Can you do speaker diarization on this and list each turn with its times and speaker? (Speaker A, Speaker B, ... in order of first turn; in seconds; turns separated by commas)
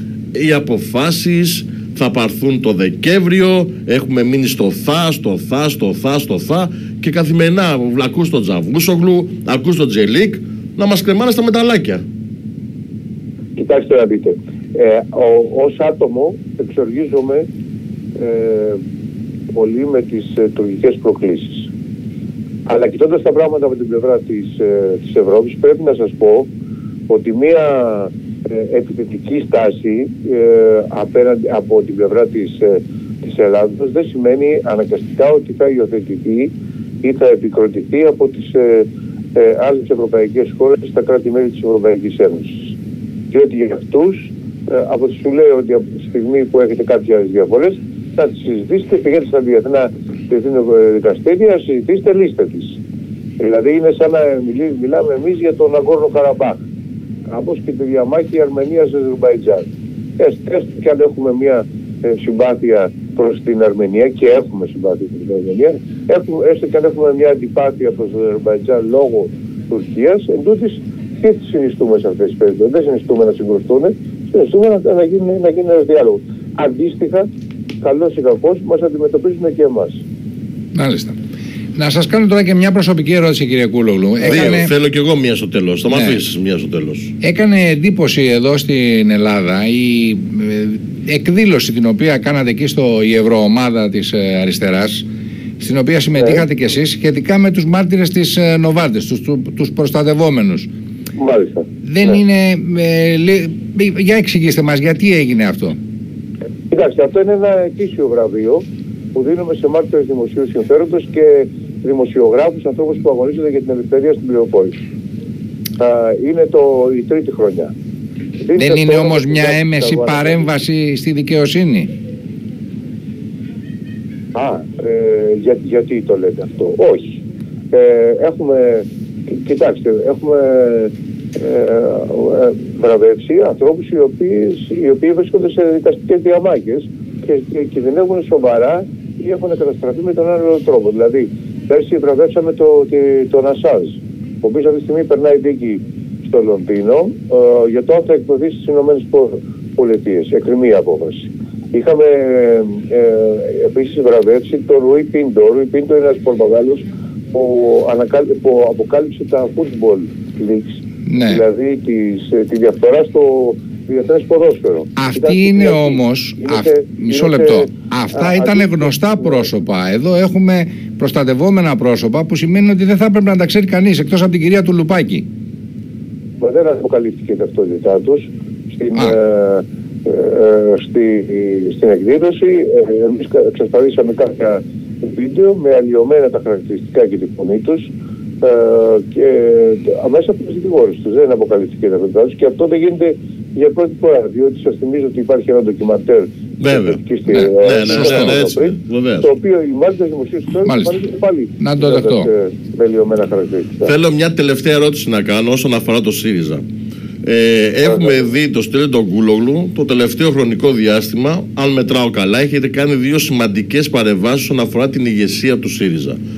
Speaker A: 0.3-12.0, Speaker B: 13.6-17.5, Speaker B: 18.2-18.8, Speaker B: 19.5-21.7, Speaker B: 22.7-26.5, Speaker B: 27.1-36.5, Speaker B: 37.0-42.7, Speaker B: 43.3-52.8, Speaker B: 53.4-56.6, Speaker B: 57.3-59.6, Speaker B: 60.2-77.2, Speaker B: 77.8-80.0, Speaker C: 80.7-81.2, Speaker C: 81.8-84.7, Speaker B: 84.2-84.6, Speaker A: 84.2-87.1, Speaker C: 85.9-86.2, Speaker C: 87.2-95.0, Speaker C: 95.6-100.7, Speaker B: 96.2-96.4, Speaker B: 101.2-102.1, Speaker C: 101.8-105.8, Speaker B: 106.7-108.6, Speaker B: 109.1-114.8, Speaker B: 115.8-117.7, Speaker B: 118.4-120.5, Speaker C: 118.6-121.9, Speaker B: 124.3-169.4, Speaker C: 161.1-161.4, Speaker C: 164.9-175.2, Speaker B: 176.4-187.9, Speaker B: 188.4-203.9, Speaker A: 196.6-197.0, Speaker C: 197.3-198.3, Speaker A: 197.6-199.3, Speaker C: 200.7-200.9, Speaker C: 201.6-202.3, Speaker A: 203.8-206.6, Speaker A: 207.2-216.2